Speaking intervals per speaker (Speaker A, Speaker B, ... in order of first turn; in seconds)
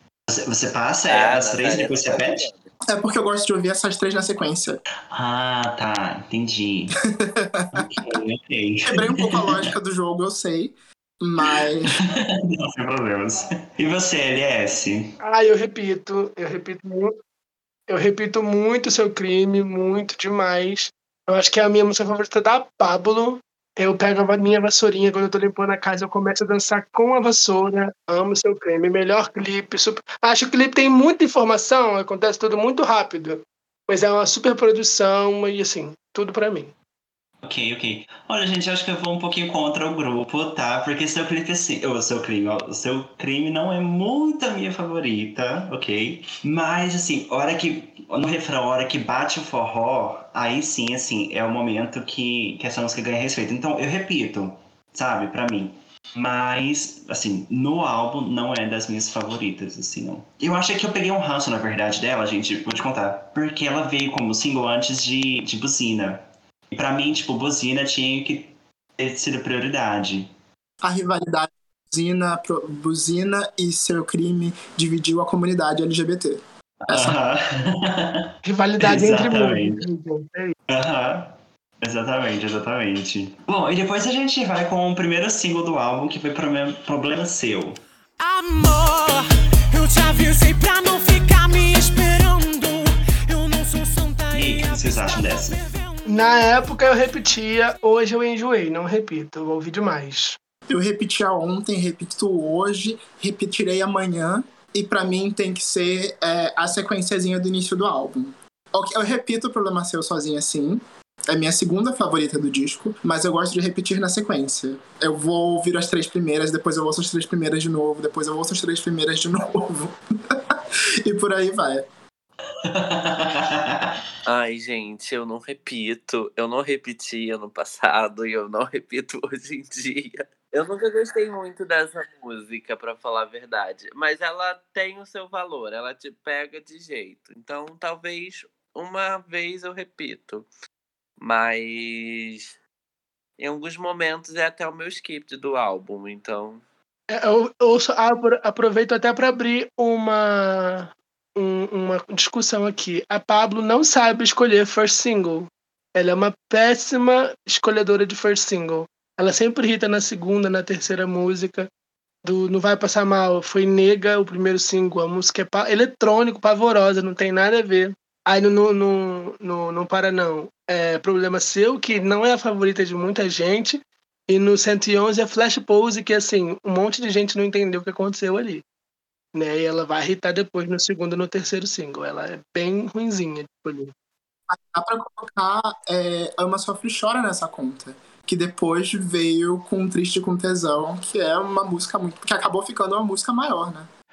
Speaker A: 0.3-2.5, 5.1-7.0, 7.7-9.7, 11.8-15.2, 37.4-70.3, 76.8-79.8, 80.7-87.8, 94.3-95.6, 122.6-124.0
Speaker B: 1.1-2.7, 124.2-140.5, 141.2-142.6, 143.4-146.6
Speaker C: 2.9-4.8, 7.4-8.2, 8.9-12.1, 70.8-77.2, 100.7-121.9, 184.5-193.9
Speaker D: 15.2-17.1, 17.9-36.7, 78.4-80.5, 96.1-100.4, 147.1-161.7, 162.2-178.6, 179.3-183.9
Speaker E: 88.2-97.1